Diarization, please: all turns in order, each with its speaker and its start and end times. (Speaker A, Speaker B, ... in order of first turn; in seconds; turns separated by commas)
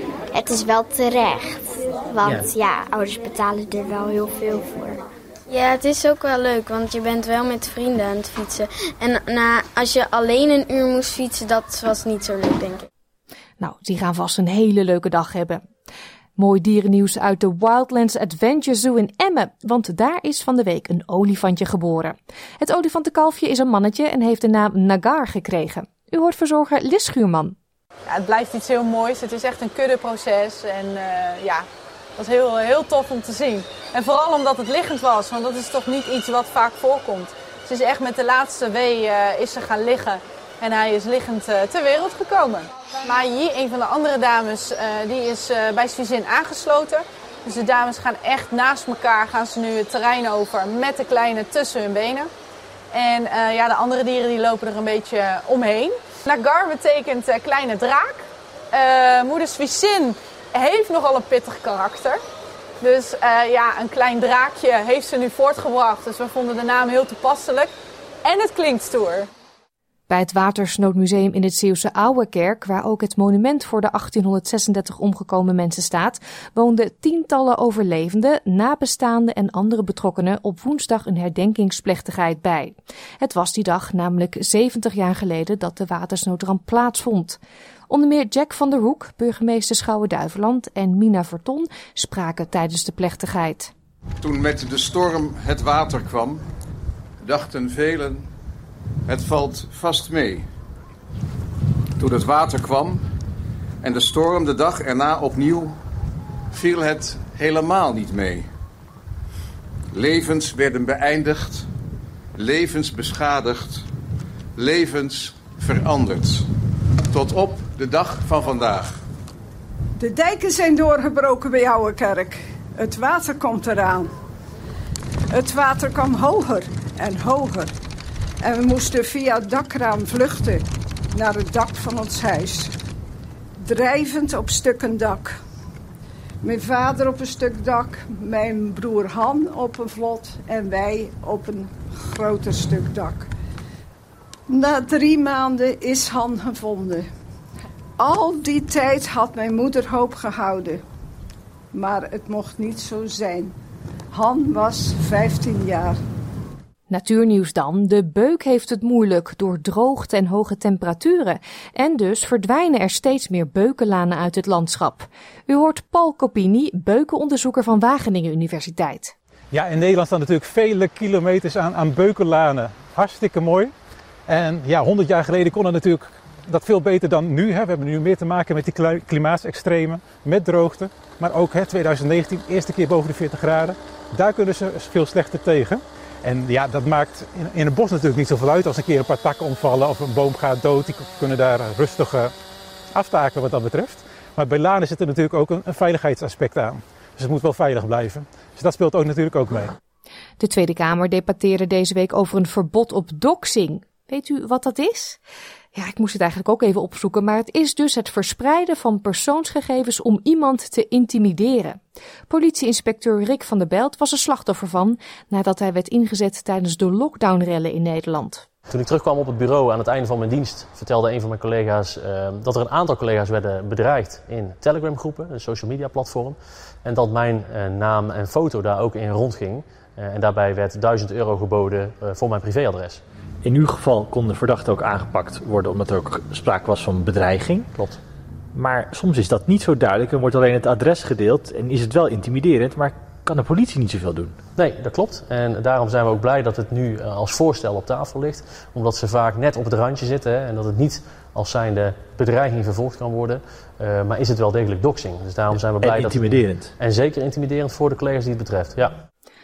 Speaker A: 0.3-5.0, Speaker B: 5.5-12.9, Speaker C: 13.6-15.6, Speaker C: 16.4-20.4, Speaker D: 20.6-21.3, Speaker C: 21.4-22.1, Speaker C: 22.6-27.5, Speaker D: 22.9-23.2, Speaker E: 28.1-31.6, Speaker E: 32.2-52.3, Speaker E: 52.9-62.2, Speaker E: 62.8-67.7, Speaker E: 68.2-69.3, Speaker D: 70.1-87.4, Speaker D: 87.9-93.7, Speaker F: 94.2-96.5, Speaker F: 97.2-98.3, Speaker F: 99.1-100.5, Speaker F: 102.0-103.0, Speaker F: 103.8-105.8, Speaker F: 106.5-108.5, Speaker F: 109.9-111.7, Speaker F: 112.4-113.9, Speaker F: 114.6-116.5, Speaker F: 117.1-119.0, Speaker G: 120.0-124.1, Speaker G: 125.3-127.7, Speaker G: 128.4-132.7, Speaker G: 133.6-135.4, Speaker G: 136.4-143.3, Speaker G: 144.5-147.1, Speaker G: 148.0-150.8, Speaker G: 151.7-153.6, Speaker G: 154.1-156.0, Speaker D: 156.9-169.1, Speaker H: 169.5-173.7, Speaker H: 174.3-192.3, Speaker H: 192.9-199.7, Speaker D: 200.4-205.2, Speaker D: 205.8-218.4, Speaker I: 218.7-233.0, Speaker J: 233.4-237.6, Speaker J: 238.6-244.3, Speaker I: 244.6-259.0, Speaker J: 255.8-256.7